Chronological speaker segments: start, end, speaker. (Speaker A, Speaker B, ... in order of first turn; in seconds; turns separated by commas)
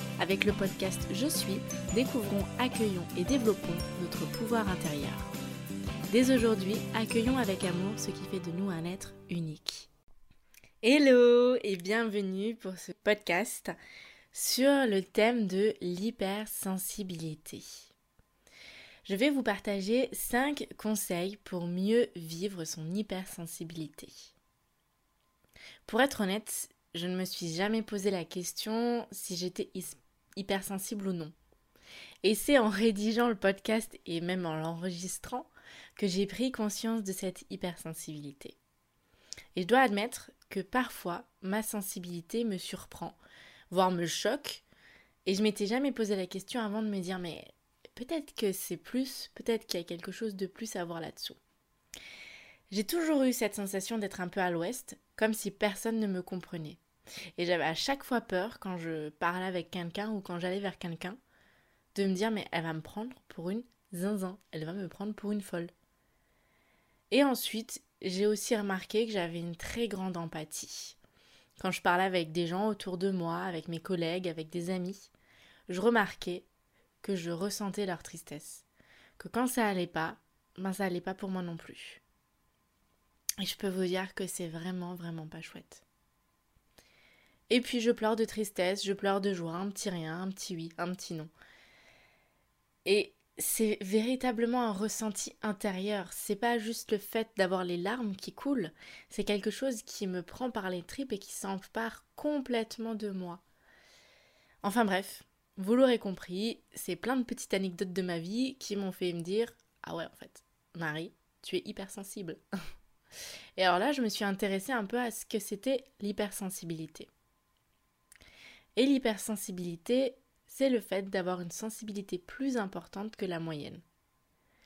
Speaker A: 0.2-5.3, Speaker A: 6.1-9.9, Speaker A: 10.8-13.8, Speaker A: 14.3-17.9, Speaker A: 19.1-24.3, Speaker A: 25.9-31.3, Speaker A: 32.2-38.6, Speaker A: 39.5-43.2, Speaker A: 43.7-44.6, Speaker A: 45.2-51.4, Speaker A: 52.7-56.8, Speaker A: 57.4-61.2, Speaker A: 61.9-65.7, Speaker A: 67.1-71.0, Speaker A: 71.6-75.1, Speaker A: 75.7-76.5, Speaker A: 77.0-78.7, Speaker A: 79.2-82.0, Speaker A: 83.4-85.8, Speaker A: 87.5-91.3, Speaker A: 92.8-103.4, Speaker A: 104.6-112.4, Speaker A: 113.6-117.1, Speaker A: 118.8-123.8